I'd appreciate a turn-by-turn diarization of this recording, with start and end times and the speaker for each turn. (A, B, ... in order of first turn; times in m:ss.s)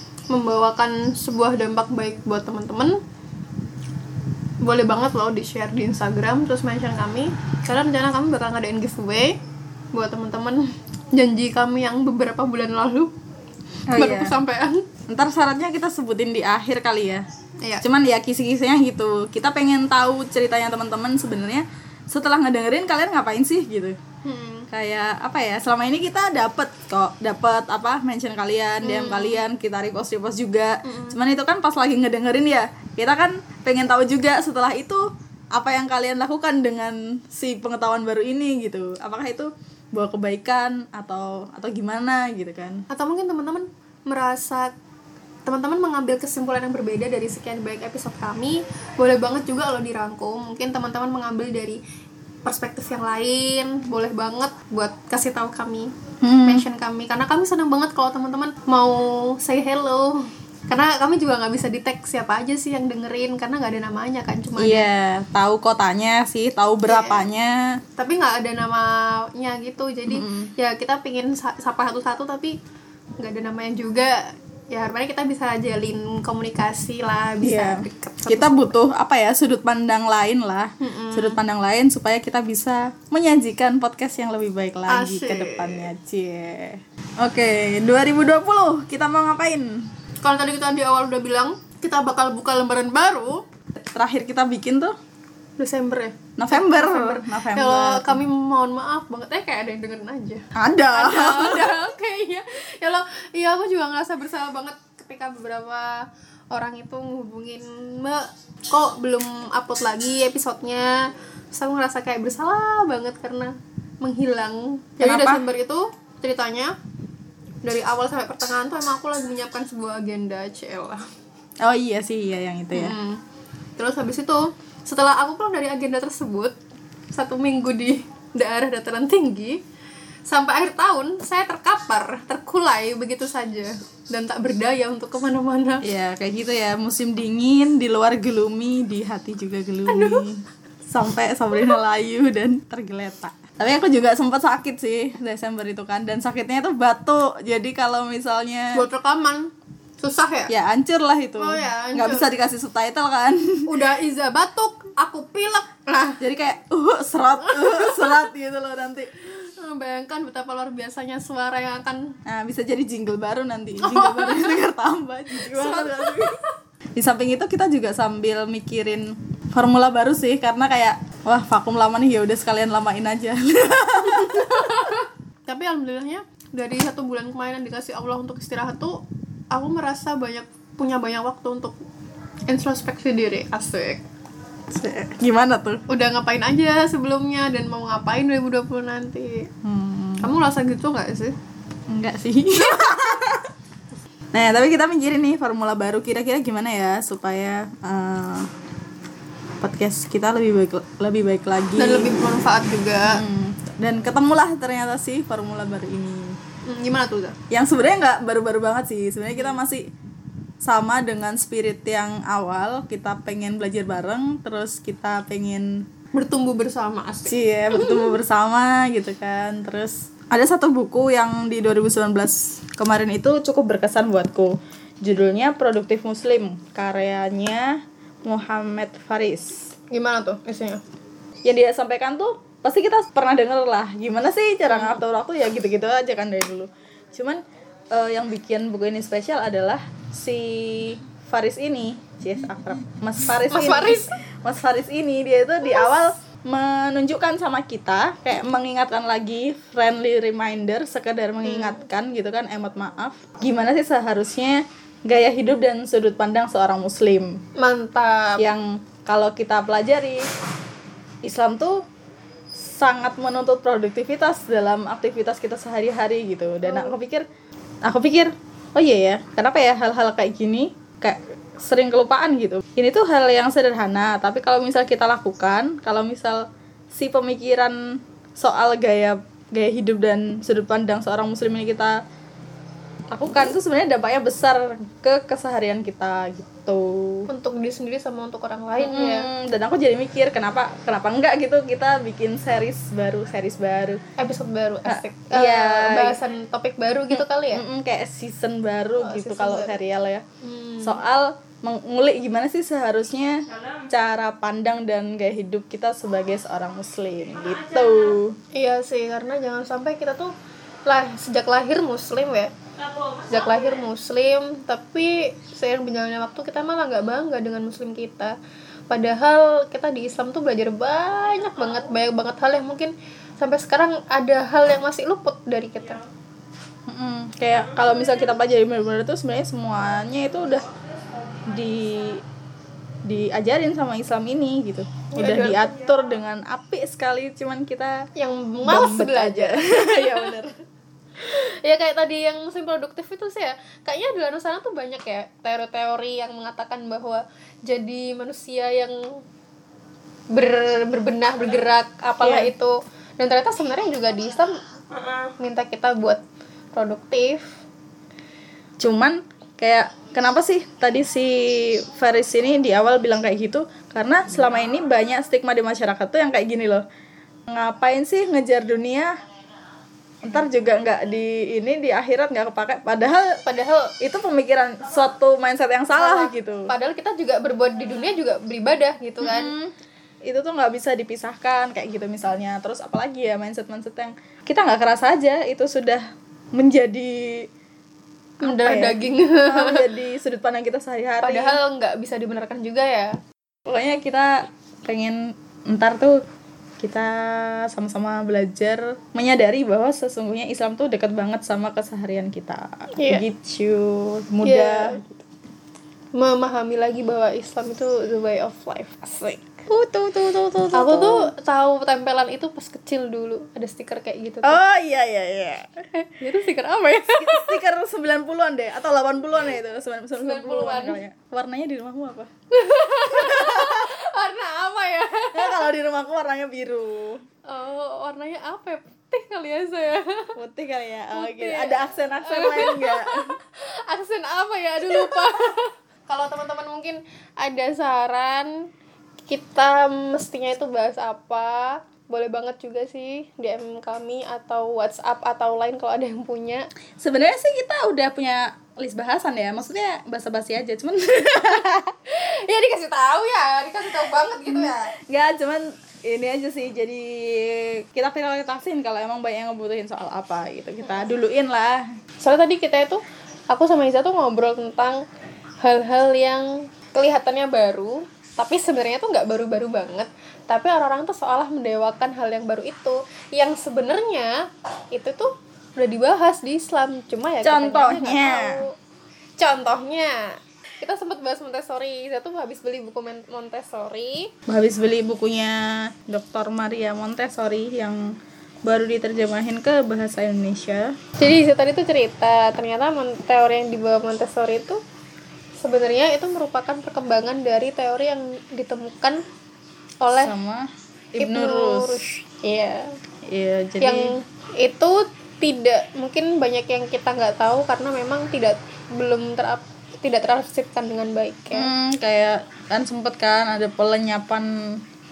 0:00.3-0:03.0 A
0:04.6-0:09.4 A
0:09.9-0:13.1 A
0:13.9-0:14.3 B
0:13.9-0:14.8 A
0:15.1-0:17.2 B
0:17.8-0:24.0 B
0:24.2-0:24.7 A
0:24.7-0:42.8 B
0:28.8-0:29.4 A
0:30.8-0:31.2 A
0:42.9-0:44.7 A
0:45.4-0:51.8 A
0:52.4-0:55.9 A
0:56.2-0:56.6 B
0:56.4-1:04.9 A
1:04.6-1:07.6 B
1:06.8-1:07.2 A
1:08.0-1:12.6 A
1:10.1-1:10.5 B
1:13.2-1:18.7 A
1:17.4-1:29.7 B
1:20.8-1:21.4 A
1:24.9-1:25.9 A
1:30.2-1:33.4 A
1:33.8-1:34.9 B
1:35.6-1:50.9 A
1:36.4-1:38.2 B
1:40.6-1:41.7 B
1:51.5-1:56.7 A
1:55.0-1:55.4 B
1:57.6-2:01.0 A
2:01.6-2:02.9 B
2:02.7-2:03.2 A
2:03.8-2:06.5 A
2:07.1-2:09.6 A
2:10.3-2:15.8 A
2:15.8-2:28.8 B
2:19.9-2:20.2 A
2:28.7-2:30.5 A
2:30.5-2:33.7 B
2:31.4-2:32.3 A
2:33.7-2:36.2 A
2:36.2-2:39.1 B
2:37.4-2:38.2 A
2:39.2-2:42.1 A
2:42.2-2:46.4 B
2:43.8-2:44.6 A
2:45.4-2:46.5 A
2:47.0-2:54.9 B
2:54.1-2:59.0 A
2:59.5-3:01.7 A
3:02.5-3:04.0 A
3:04.7-3:05.8 B
3:05.9-3:09.5 A
3:09.6-3:10.3 B
3:10.2-3:11.3 A
3:11.9-3:13.5 B
3:14.3-3:18.5 B
3:19.6-3:22.1 B
3:21.8-3:23.2 A
3:23.1-3:26.4 B
3:26.6-3:27.4 A
3:27.5-3:29.8 B
3:30.6-3:35.7 B
3:36.1-3:38.1 A
3:37.2-3:49.6 B
3:49.9-3:50.8 A
3:51.4-3:57.4 B
3:54.7-3:55.0 A
3:57.9-4:17.3 B
4:03.5-4:04.1 A
4:05.6-4:06.0 A
4:11.4-4:11.8 A
4:17.6-4:18.4 A
4:18.4-4:20.2 B
4:21.2-4:21.8 B
4:22.7-4:27.2 B
4:26.6-4:27.0 A
4:27.8-4:36.4 B
4:36.9-4:37.8 B
4:38.4-4:41.9 B
4:43.1-4:47.3 B
4:47.3-4:49.3 A
4:48.8-4:54.0 B
4:54.2-4:57.6 A
4:54.8-4:56.2 B
4:57.1-5:00.2 B
4:59.0-4:59.8 A
5:00.4-5:01.0 A
5:00.8-5:08.4 B
5:08.5-5:10.3 A
5:10.8-5:18.3 A
5:18.9-5:26.0 A
5:26.9-5:30.7 B
5:31.5-5:32.2 B
5:33.0-5:38.0 B
5:35.1-5:35.7 A
5:38.2-5:40.4 A
5:38.6-5:40.5 B
5:41.2-5:49.0 A
5:50.3-5:54.5 A
5:52.2-5:52.5 B
5:55.4-5:56.2 A
5:56.7-5:57.5 A
5:58.8-6:06.8 B
6:07.5-6:09.1 B
6:10.2-6:13.3 B
6:13.4-6:13.9 A
6:14.0-6:16.7 B
6:16.0-6:19.5 A
6:19.2-6:19.7 B
6:20.3-6:26.0 B
6:26.6-6:27.4 B
6:28.4-6:29.8 A
6:28.4-6:31.6 B
6:31.2-6:33.1 A
6:33.7-6:34.3 B
6:34.8-6:35.2 B
6:35.7-6:36.2 B
6:36.8-6:45.2 B
6:43.0-6:43.2 A
6:44.4-6:44.9 A
6:46.2-6:49.7 A
6:49.7-6:51.3 B
6:50.7-6:54.6 A
6:54.4-6:55.8 B
6:55.9-6:57.6 A
6:57.2-7:02.3 B
7:00.2-7:01.0 A
7:02.5-7:05.7 A
7:03.1-7:03.8 B
7:05.3-7:07.2 B
7:07.5-7:10.3 A
7:10.4-7:13.2 B
7:11.1-7:18.5 A
7:14.9-7:15.3 B
7:19.3-7:26.7 A
7:27.0-7:31.9 B
7:32.1-7:34.9 A
7:34.5-7:41.8 B
7:42.2-7:45.0 A
7:45.6-7:54.3 A
7:54.9-7:58.7 A
7:57.4-7:58.6 B
7:59.4-8:00.2 A
8:00.8-8:04.3 A
8:04.5-8:08.0 B
8:08.6-8:10.9 B
8:11.2-8:14.8 A
8:15.6-8:19.2 A
8:20.0-8:20.3 A
8:20.1-8:22.0 B
8:21.2-8:22.9 A
8:23.3-8:24.0 B
8:23.8-8:31.7 A
8:31.5-8:34.5 B